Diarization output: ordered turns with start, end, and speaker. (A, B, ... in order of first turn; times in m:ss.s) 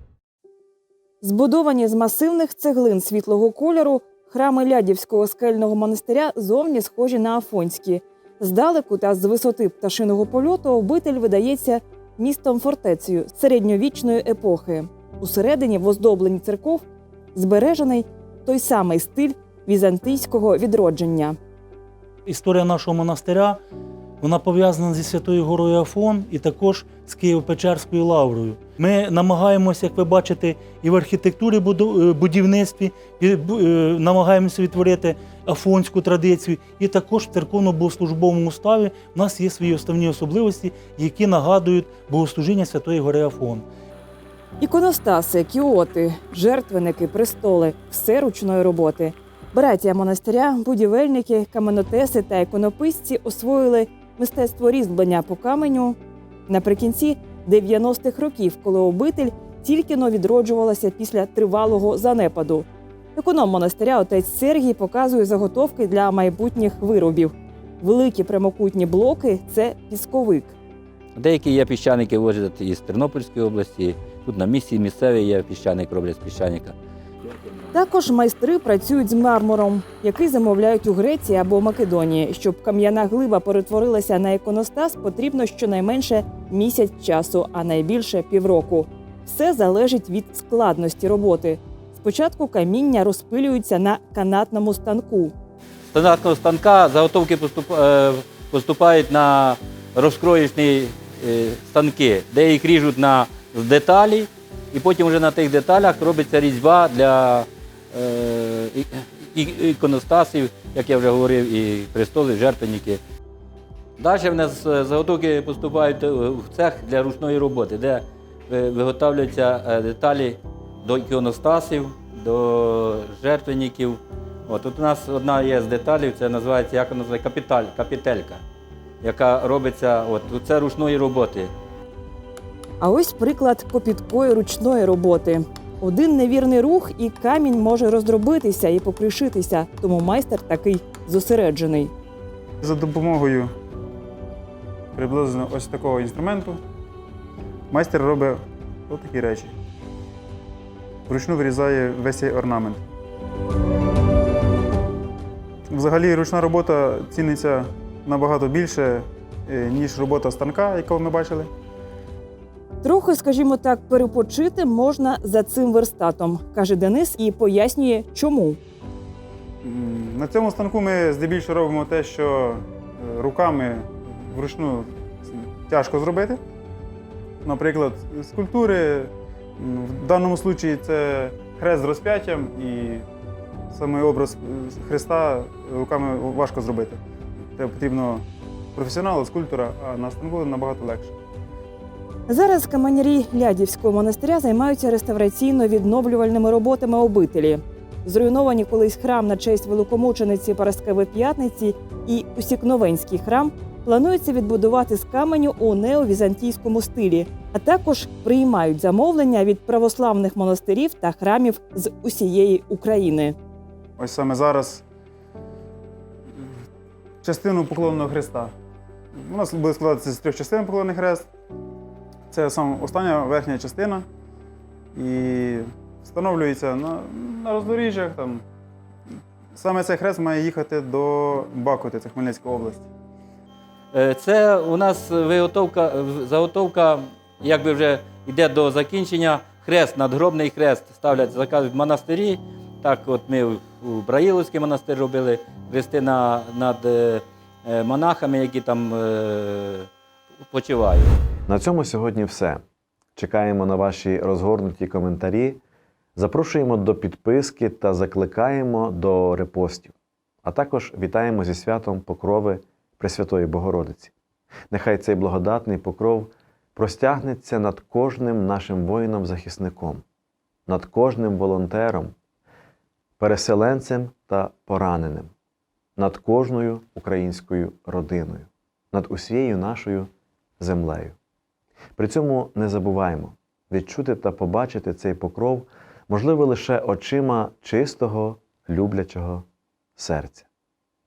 0:01.2-0:21.3 A
0:22.2-0:23.6 B
0:24.2-0:43.7 B
0:44.6-0:56.0 A
0:56.5-1:10.5 A
1:11.2-1:16.7 C
1:17.7-1:35.3 A
1:35.9-1:53.0 C
1:54.0-2:08.4 C
2:09.0-2:11.5 C
2:12.8-2:21.9 A
2:22.6-2:23.5 D
2:25.0-2:26.6 D
2:27.7-2:29.5 D
2:31.1-2:32.8 D
2:35.7-2:41.5 D
2:42.8-2:48.6 A
2:49.6-2:56.4 D
2:57.4-3:03.0 D
3:03.7-3:07.0 D
3:07.6-3:08.2 D
3:08.8-3:11.1 D
3:12.3-3:33.4 A
3:34.0-3:34.8 D
3:37.2-3:38.5 D
3:39.3-3:41.3 D
3:42.3-3:44.0 D
3:45.0-3:48.4 D
3:49.6-3:52.8 D
3:53.9-4:09.9 C
4:10.5-4:11.1 C
4:11.5-4:12.6 E
4:13.2-4:15.6 E
4:16.2-4:24.1 E
4:24.7-4:30.0 E
4:30.7-4:32.1 E
4:33.2-4:35.3 E
4:36.0-4:41.2 E
4:42.0-4:50.5 E